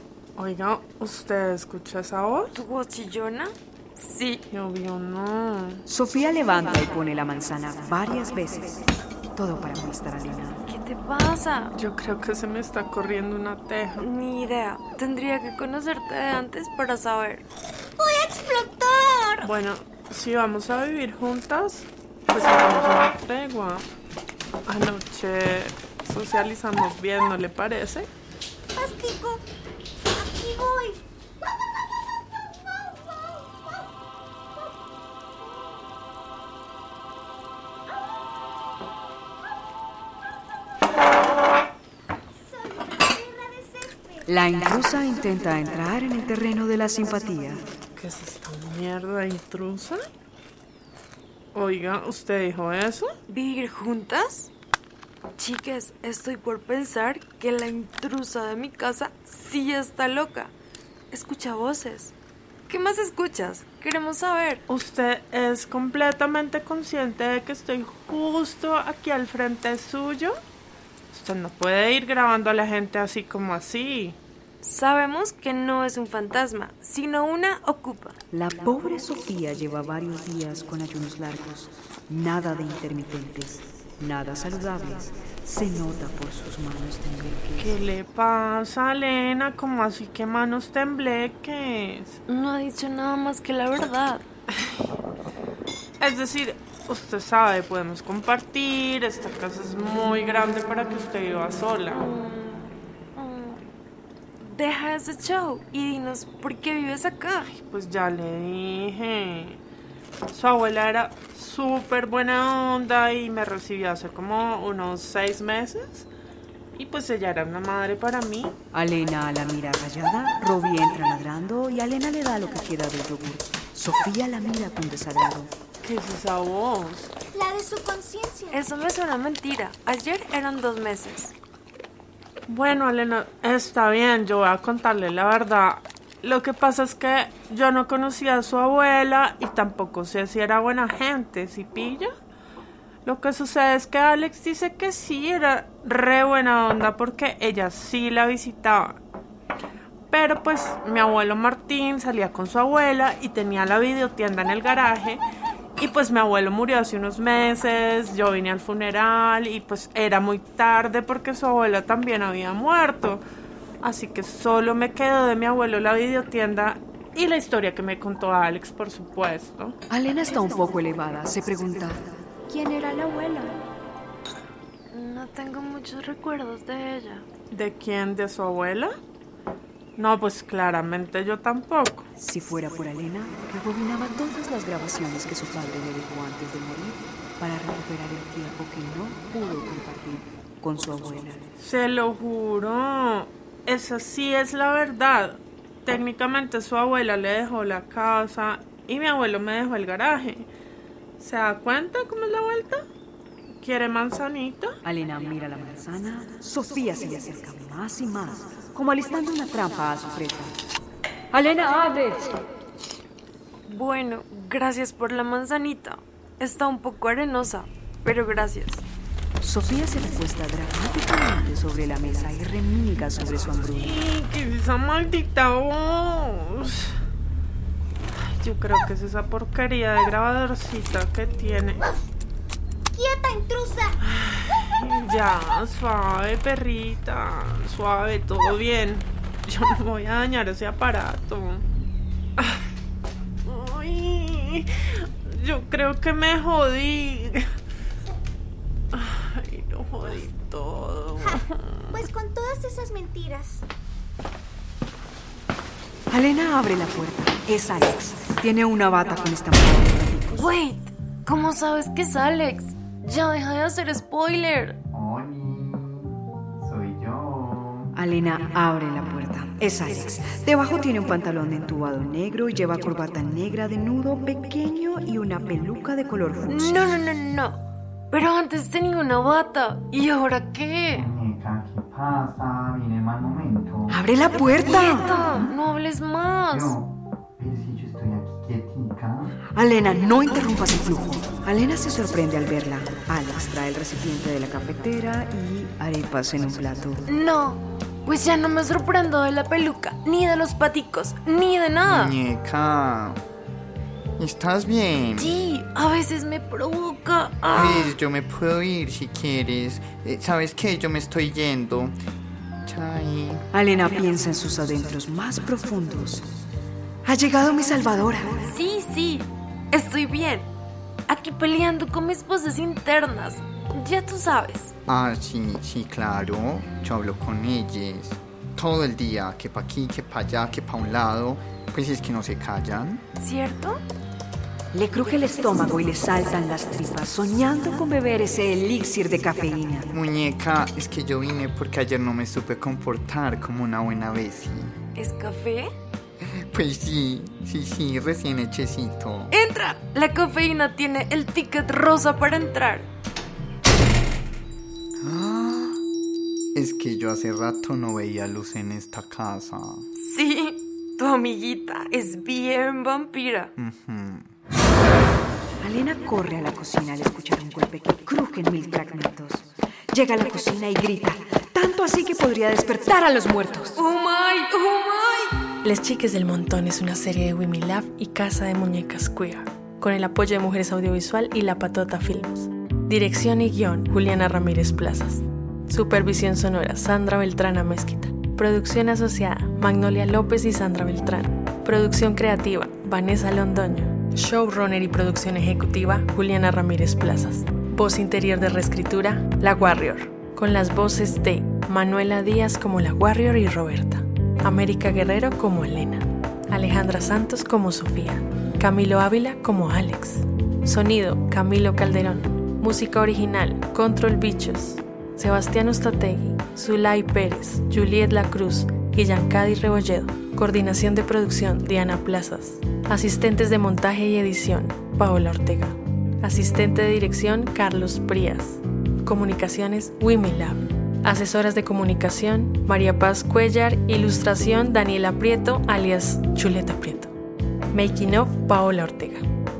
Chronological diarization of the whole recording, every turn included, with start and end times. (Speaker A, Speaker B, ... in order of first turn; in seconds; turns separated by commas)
Speaker A: 0.4-2.6, Speaker B: 2.5-4.4, Speaker A: 4.5-5.8, Speaker C: 5.9-10.6, Speaker B: 10.7-11.7, Speaker A: 11.7-14.0, Speaker B: 14.0-17.4, Speaker D: 18.0-19.5, Speaker A: 19.4-23.9, Speaker A: 24.7-28.1, Speaker D: 28.7-29.4, Speaker D: 30.1-31.0, Speaker D: 32.4-33.9, Speaker D: 34.5-35.9, Speaker D: 37.9-38.3, Speaker D: 42.4-44.2, Speaker C: 44.3-47.6, Speaker A: 48.0-50.0, Speaker A: 51.5-53.1, Speaker B: 53.3-54.5, Speaker B: 55.4-60.5, Speaker B: 61.1-62.1, Speaker B: 62.7-64.6, Speaker A: 64.7-70.3, Speaker A: 71.1-74.2, Speaker B: 74.6-78.2, Speaker C: 78.3-87.7, Speaker A: 87.6-92.2, Speaker B: 92.3-94.2, Speaker A: 96.0-102.0, Speaker B: 101.9-103.6, Speaker B: 104.4-107.5, Speaker A: 107.5-109.6, Speaker A: 110.3-116.1, Speaker A: 116.7-118.5, Speaker C: 118.7-125.5, Speaker A: 125.8-127.1, Speaker D: 127.3-128.6, Speaker B: 128.5-131.3, Speaker A: 132.5-142.1, Speaker A: 143.0-149.0, Speaker A: 150.1-155.2, Speaker A: 155.8-163.2, Speaker A: 163.8-169.8, Speaker C: 169.9-173.6, Speaker B: 174.9-177.2, Speaker A: 177.5-178.9, Speaker A: 180.0-182.1, Speaker C: 182.2-191.4, Speaker A: 191.6-200.5, Speaker A: 201.2-202.8, Speaker A: 203.6-204.7, Speaker C: 204.8-210.5, Speaker C: 211.3-212.4, Speaker B: 213.7-218.8, Speaker C: 219.4-223.9, Speaker A: 223.8-226.9, Speaker A: 228.1-231.8, Speaker D: 232.9-234.0, Speaker A: 234.0-241.6, Speaker A: 243.4-247.5, Speaker A: 248.9-251.6, Speaker D: 251.2-253.6, Speaker C: 256.1-260.5, Speaker B: 260.3-264.8, Speaker E: 264.9-267.9, Speaker C: 267.9-277.0, Speaker B: 276.5-277.6, Speaker B: 278.1-281.0, Speaker E: 280.9-284.0, Speaker C: 283.9-285.1, Speaker B: 284.4-286.8, Speaker E: 286.5-289.4, Speaker C: 289.5-297.0, Speaker B: 297.1-302.1, Speaker E: 301.9-303.2, Speaker E: 304.2-305.4, Speaker B: 305.2-308.0, Speaker E: 307.5-311.9, Speaker E: 312.6-313.4, Speaker C: 313.5-316.3, Speaker C: 317.0-318.5, Speaker B: 318.5-320.5, Speaker B: 321.1-324.7, Speaker E: 324.9-333.0, Speaker B: 333.2-333.8, Speaker C: 334.7-339.9, Speaker E: 339.9-344.7, Speaker B: 344.9-345.7, Speaker E: 346.2-349.3, Speaker B: 349.3-352.9, Speaker E: 355.0-355.8, Speaker E: 356.5-359.9, Speaker B: 359.9-363.5, Speaker E: 363.6-364.3, Speaker C: 365.6-373.8, Speaker B: 373.7-375.4, Speaker F: 375.6-437.1, Speaker F: 437.7-439.2